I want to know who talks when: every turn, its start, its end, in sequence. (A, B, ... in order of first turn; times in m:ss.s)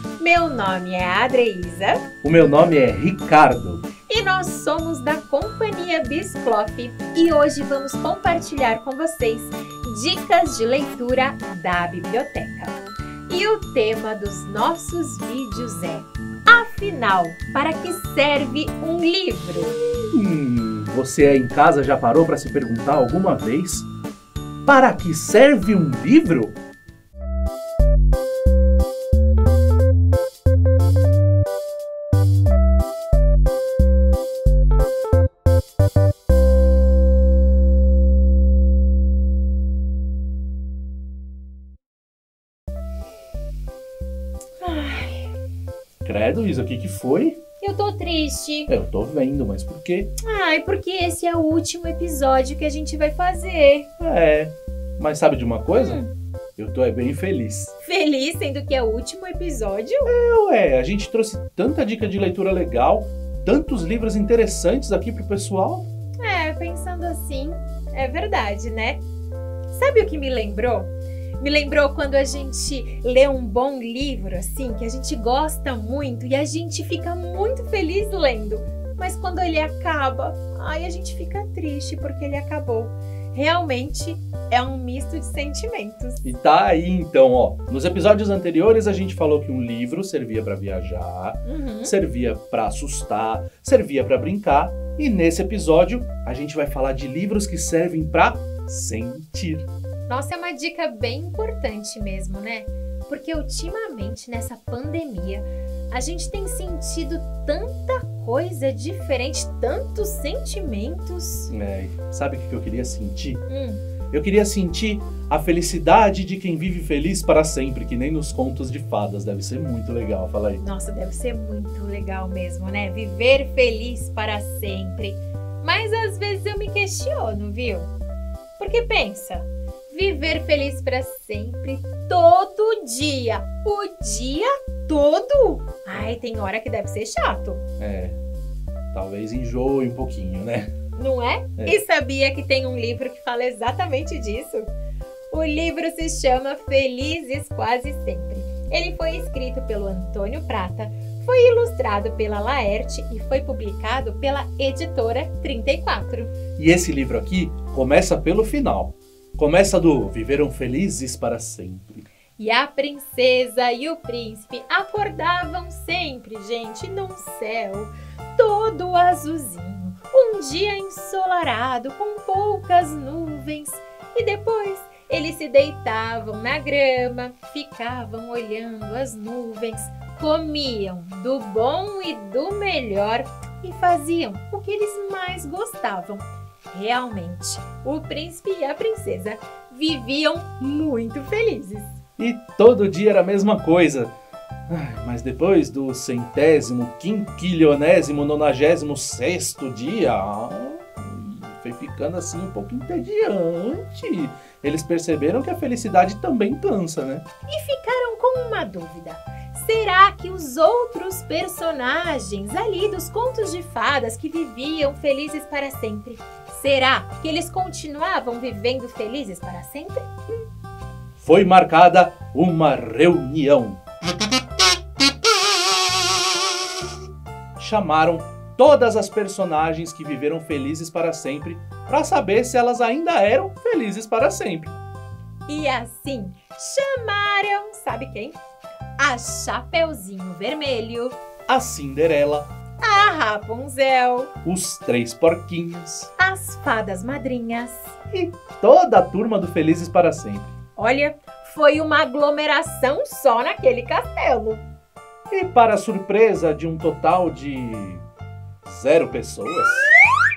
0:00.2-0:02.0 A
0:02.2-0:03.9 B
0:04.1-0:19.8 A
0:20.1-0:23.9 B
0:24.6-0:26.6 B
0:44.6-0:45.3 A
0:46.0-0:47.4 B
0:47.6-0:48.7 A
0:48.7-0:50.1 B
0:50.2-0:53.9 A
0:54.0-0:56.0 B
0:55.7-0:56.1 A
0:56.6-0:57.7 B
0:57.8-1:00.1 A
1:00.1-1:05.9 B
1:06.2-1:09.0 A
1:09.7-1:26.2 A
1:26.2-1:39.7 B
1:31.4-1:31.9 A
1:40.1-1:51.5 A
1:51.5-1:53.4 B
1:53.5-1:53.8 A
1:54.1-2:00.6 B
2:00.6-2:07.9 A
2:08.6-2:17.6 A
2:17.8-2:18.2 B
2:18.9-2:20.7 B
2:21.0-2:24.7 A
2:25.3-2:36.3 A
2:36.6-2:42.1 B
2:42.4-3:12.0 A
3:12.2-3:14.1 B
3:14.7-3:27.2 B
3:27.5-3:40.1 A
3:41.2-3:43.8 B
3:47.6-3:54.8 B
3:55.5-3:58.4 A
3:59.0-4:01.2 A
4:01.5-4:02.5 B
4:02.8-4:04.3 A
4:04.4-4:06.1 B
4:06.2-4:07.9 A
4:08.1-4:10.6 B
4:10.8-4:14.6 A
4:15.3-4:18.0 B
4:18.6-4:19.9 B